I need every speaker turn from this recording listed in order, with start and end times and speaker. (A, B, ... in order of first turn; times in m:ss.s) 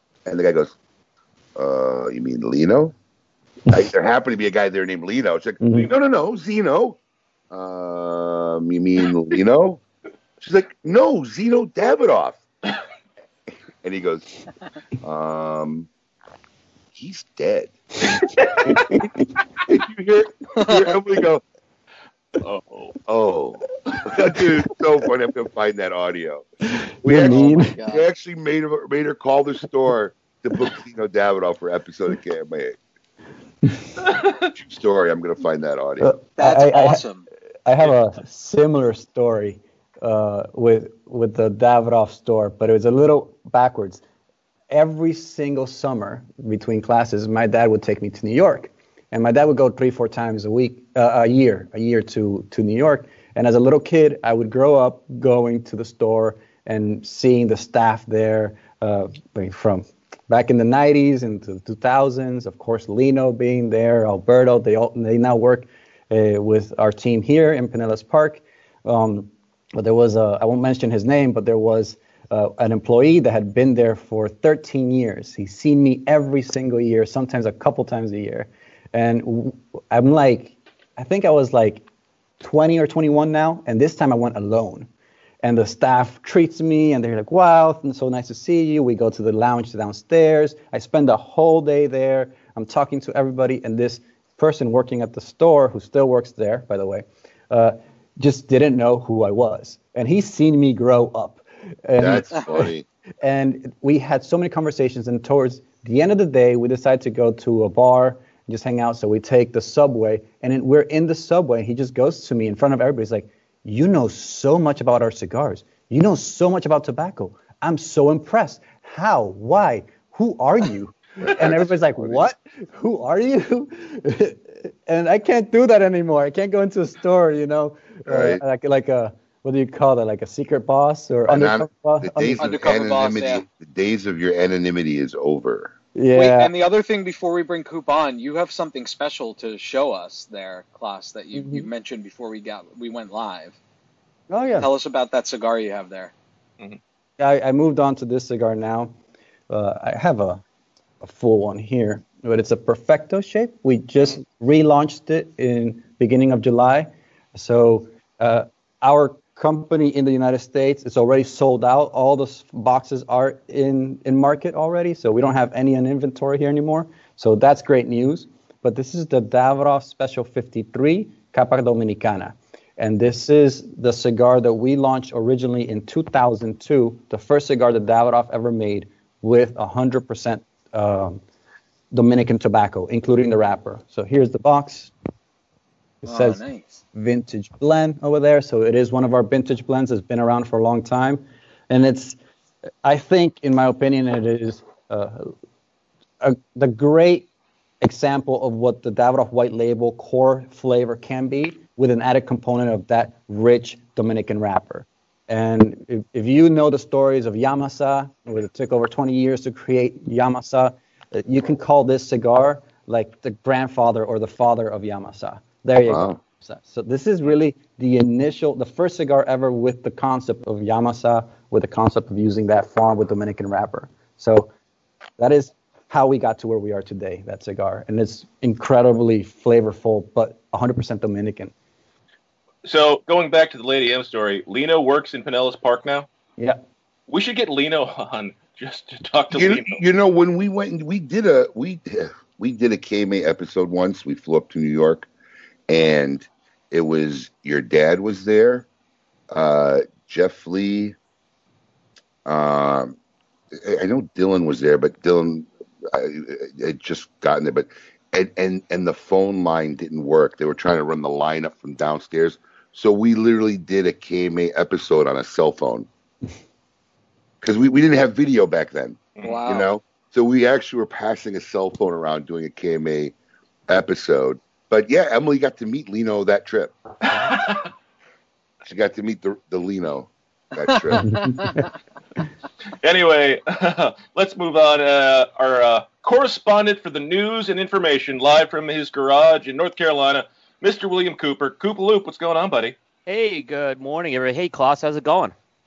0:00.2-0:00.8 A
0:01.6-0:03.0 A
0:03.7-0:07.0 A
0:05.6-0:05.9 B
0:07.5-0:09.8 A
0:10.4-0:12.4 A
0:13.8-0:14.3 A
0:15.0-0:15.9 A
0:16.9-0:17.8 A
0:18.7-0:19.1 B
0:19.7-0:21.4 A
0:20.6-0:21.0 C
0:22.4-0:23.0 D
0:23.1-0:26.5 A
0:27.0-0:27.7 B
0:27.0-0:32.8 A
0:27.1-0:28.1 C
0:34.5-0:36.1 A
0:36.0-0:37.0 B
0:36.4-0:37.3 C
0:37.7-0:44.0 B
0:44.7-1:21.8 B
1:22.4-1:24.9 B
1:25.4-1:42.7 B
1:42.0-1:42.9 A
1:43.2-2:12.5 B
2:01.4-2:02.3 A
2:08.1-2:08.4 A
2:11.3-2:15.7 A
2:12.4-2:13.4 C
2:16.0-2:16.5 B
2:16.1-2:23.6 C
2:21.3-2:21.7 B
2:24.3-2:24.7 B
2:24.6-2:26.1 C
2:27.2-2:28.9 B
2:29.5-2:30.4 B
2:31.0-3:01.2 B
3:01.9-3:04.9 B
3:06.0-3:06.4 B
3:06.1-3:06.7 C
3:06.9-3:12.2 B
3:12.8-3:15.3 B
3:16.2-3:17.3 B
3:17.8-3:44.5 B
3:35.8-3:36.2 A
3:45.2-3:51.5 B
3:52.6-3:56.1 D
3:57.1-3:59.8 D
3:59.3-4:05.1 A
4:05.7-4:08.7 A
4:09.3-4:11.0 A
4:12.2-4:13.0 A
4:13.5-4:25.9 A
4:27.4-4:33.1 A
4:29.2-4:29.7 C
4:33.7-4:36.8 A
4:37.1-4:37.7 D
4:38.6-4:41.2 A
4:40.6-4:41.7 C
4:41.3-4:41.6 B
4:42.8-4:52.8 D
4:53.1-4:55.4 E